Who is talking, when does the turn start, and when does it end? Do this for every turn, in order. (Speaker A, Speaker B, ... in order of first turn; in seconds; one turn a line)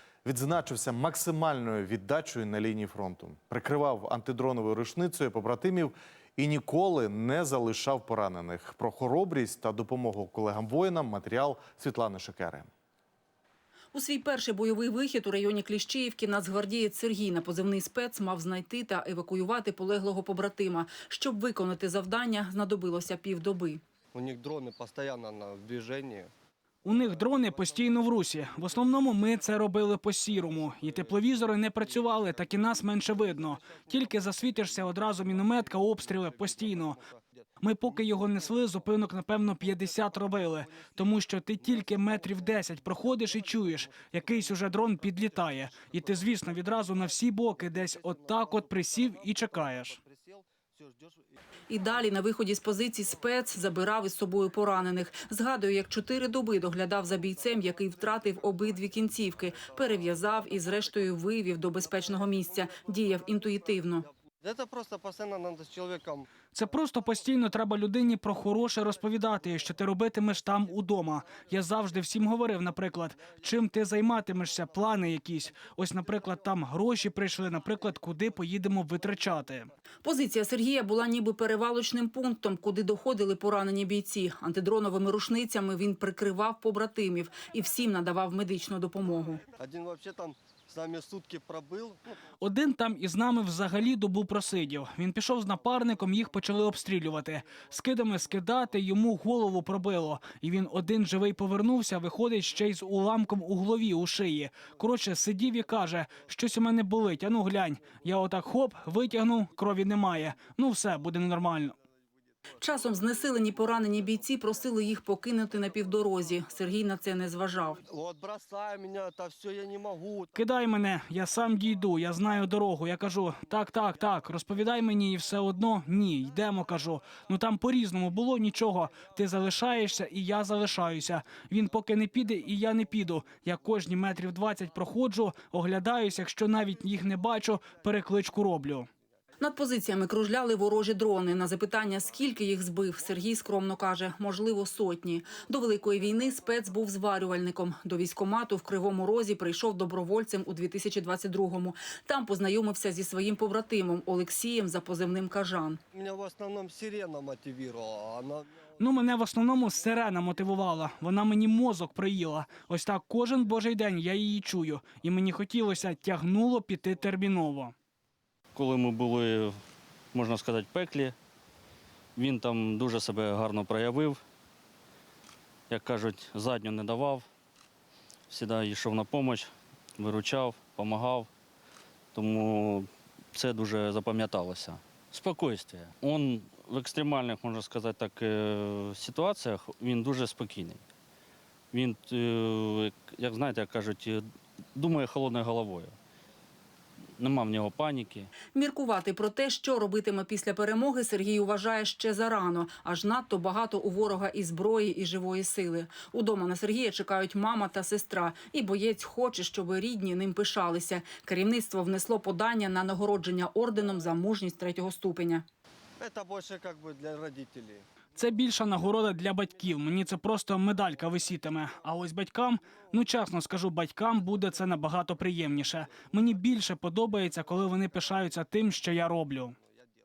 Speaker A: 0.2-12.7
Speaker B: 13.9-23.8
Speaker C: 24.1-26.3
Speaker D: 26.8-37.0
Speaker C: 26.9-29.7
Speaker C: 30.3-51.2
Speaker D: 37.6-50.0
Speaker B: 51.7-64.1
Speaker C: 57.1-66.3
Speaker D: 66.5-79.7
Speaker C: 74.7-77.6
Speaker B: 80.0-89.4
Speaker C: 89.5-92.1
Speaker D: 92.4-111.7
Speaker B: 112.6-117.8
Speaker C: 112.9-114.1
Speaker C: 117.8-120.3
Speaker D: 120.3-138.9
Speaker B: 139.4-155.8
Speaker C: 155.9-158.5
Speaker D: 158.8-167.7
Speaker E: 168.5-169.5
Speaker E: 170.1-171.1
Speaker E: 172.2-174.2
Speaker E: 175.7-177.3
Speaker E: 178.3-181.3
Speaker E: 182.1-190.8
Speaker E: 191.7-194.2
Speaker E: 194.7-195.9
Speaker E: 197.2-198.3
Speaker B: 198.5-215.4
Speaker C: 216.0-217.8
Speaker D: 218.2-229.6